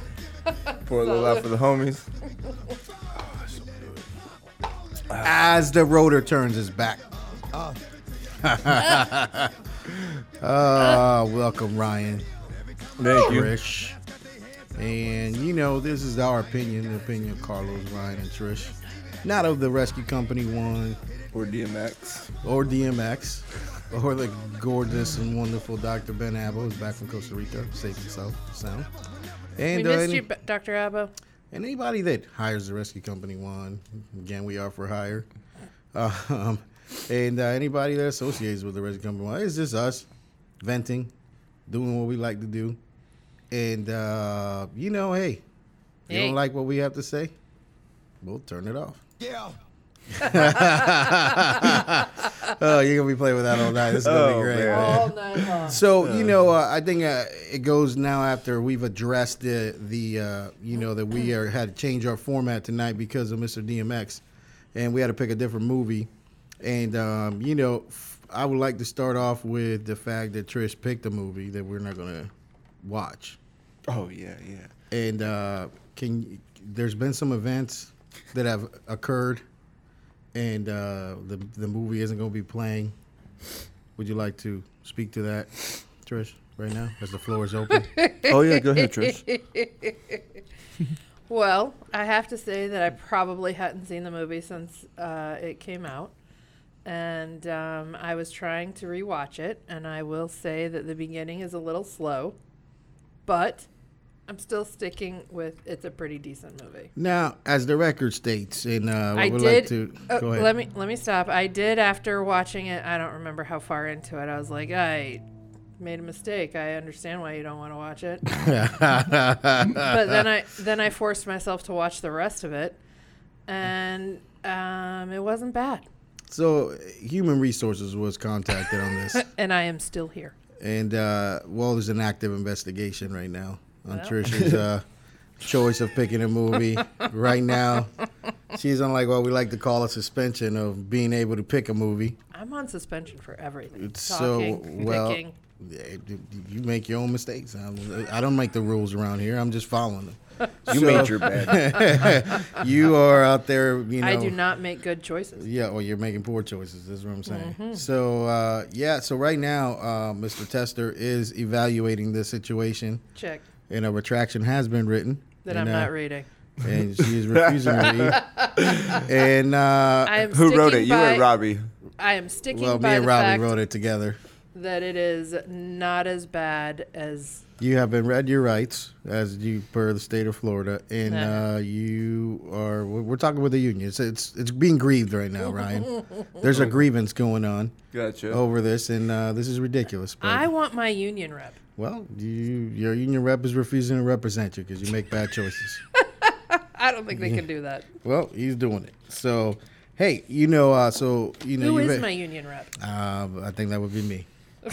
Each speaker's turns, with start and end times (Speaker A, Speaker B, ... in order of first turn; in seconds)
Speaker A: 0.6-1.5, 29.7-31.1, 46.1-46.4, 50.2-52.3, 54.7-55.8, 87.9-90.4, 91.3-96.1, 96.8-102.4, 103.2-103.7, 104.3-106.9, 109.1-115.2, 115.8-118.3, 119.8-122.8, 123.5-125.8, 129.1-130.3, 133.9-134.2, 142.3-145.3, 150.4-150.8, 151.3-152.6, 154.0-155.4, 157.2-157.8, 163.2-163.4, 165.4-166.3, 168.1-169.1, 170.0-171.3, 172.0-173.5, 174.5-177.4, 181.1-181.5, 190.2-191.6, 196.0-197.9, 201.6-202.7
Speaker B: 0.8-2.1, 13.0-13.5, 21.3-22.3, 53.8-56.4, 73.9-74.7, 88.2-89.2, 134.3-134.6, 150.7-152.0, 166.7-169.0, 170.3-171.7, 186.5-186.8, 187.9-188.4
Speaker C: 2.8-4.0, 7.1-9.4, 12.3-13.1, 14.0-14.8, 18.8-19.1, 28.0-28.9, 49.2-49.6
Speaker D: 5.2-7.0, 8.4-9.5, 10.4-12.3, 13.1-14.0, 14.8-21.0, 22.4-28.9, 29.6-30.3, 31.5-35.3, 35.9-40.1, 40.6-41.1, 41.7-42.8, 43.5-45.4, 46.1-47.3, 48.2-49.0, 50.2-64.2, 64.7-66.1, 66.6-72.3, 72.8-73.4, 74.9-79.4, 80.3-82.9, 84.0-87.9, 107.0-110.5, 118.2-120.3, 126.3-129.2, 130.6-134.8, 135.4-137.9, 138.5-142.2, 143.7-154.4, 155.3-163.0, 163.7-165.9, 166.6-168.2, 168.9-170.3, 172.5-174.2, 177.6-187.7, 188.3-190.5, 191.8-195.8, 197.1-197.4, 198.0-202.1, 202.8-204.3